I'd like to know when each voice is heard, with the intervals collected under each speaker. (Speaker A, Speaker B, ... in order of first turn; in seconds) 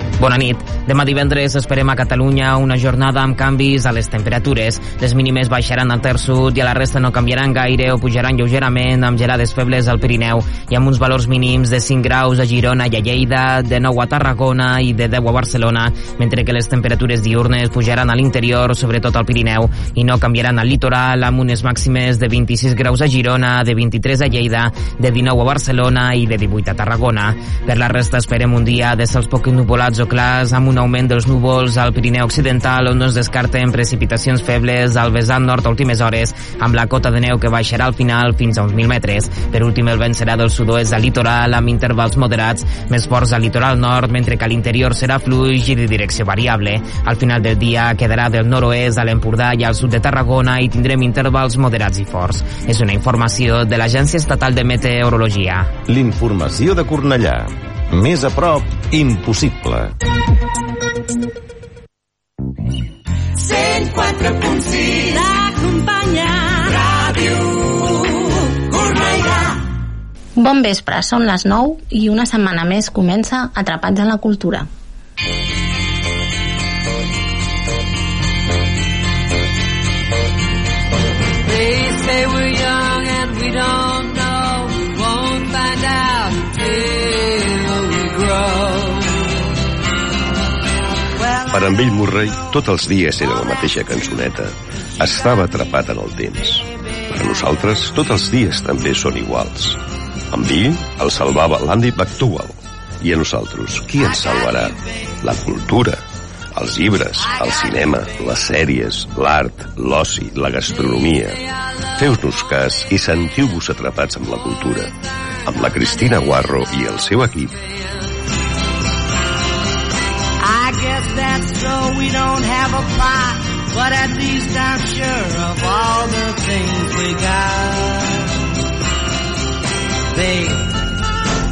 Speaker A: 0.2-55.8
Speaker B: 55.8-59.9
Speaker C: 63.4-69.5, 81.4-89.2, 120.4-128.1, 130.1-130.7
Speaker D: 70.3-74.7
Speaker E: 91.5-106.0, 106.5-117.6